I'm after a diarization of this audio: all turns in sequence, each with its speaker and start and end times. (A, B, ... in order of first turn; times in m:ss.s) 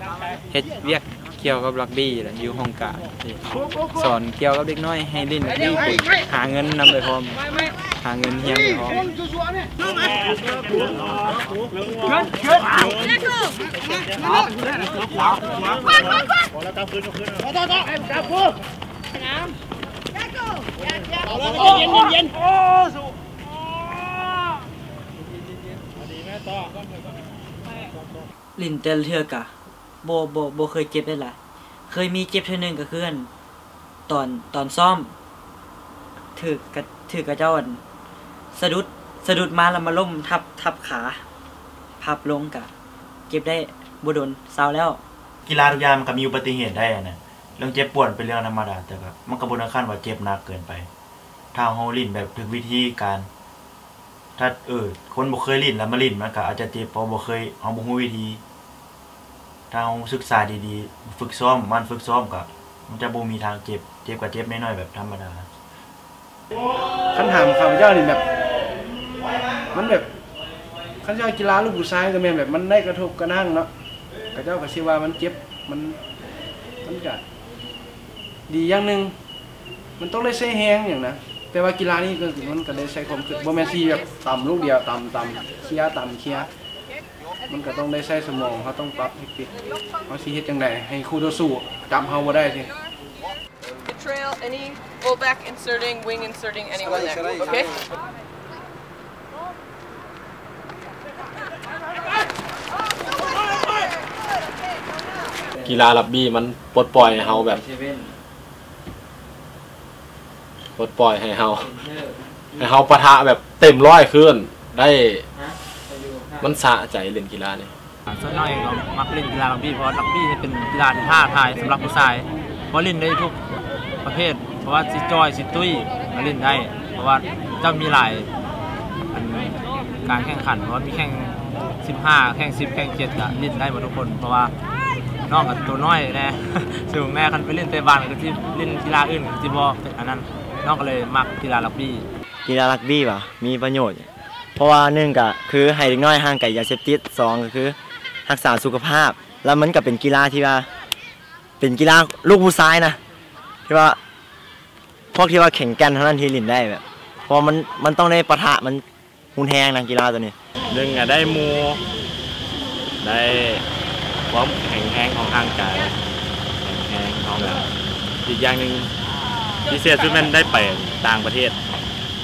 0:00.5-0:03.4 A
0:04.0-0:07.4 A
0:08.0-0:09.0 A
0:28.6-0:31.4 B
0:31.9-0:33.3 B
0:34.1-0:35.1 B
0:36.4-0:37.8 B
0:38.5-0:41.2 B
0:42.0-0:42.7 B
0:43.3-0:45.0 B
0:45.4-0:50.9 C
0:51.5-0:53.3 C
0:54.4-0:58.4 C
0:59.7-1:05.5 C
1:07.1-1:08.2 D
1:09.7-1:10.1 D
1:11.0-1:13.7 D
1:14.3-1:16.0 D
1:16.8-1:17.2 D
1:18.5-1:19.1 D
1:20.0-1:26.5 D
1:27.5-1:29.5 D
1:30.1-1:32.7 D
1:33.9-1:37.7 E
1:45.6-1:47.7 F
1:50.8-1:51.8 F
1:52.6-1:55.2 F
1:56.4-1:57.7 F
1:58.1-2:03.4 G
2:04.0-2:08.3 G
2:09.1-2:14.5 G
2:15.3-2:22.0 G
2:22.4-2:27.8 H
2:28.3-2:30.7 H
2:31.6-2:33.0 H
2:33.7-2:34.0 H
2:35.1-2:38.8 H
2:39.3-2:40.3 H
2:40.7-2:41.8 I
2:43.0-2:43.6 I
2:44.3-2:46.0 I
2:46.6-2:47.7 I
2:48.2-2:48.9 I
2:49.7-2:51.6 I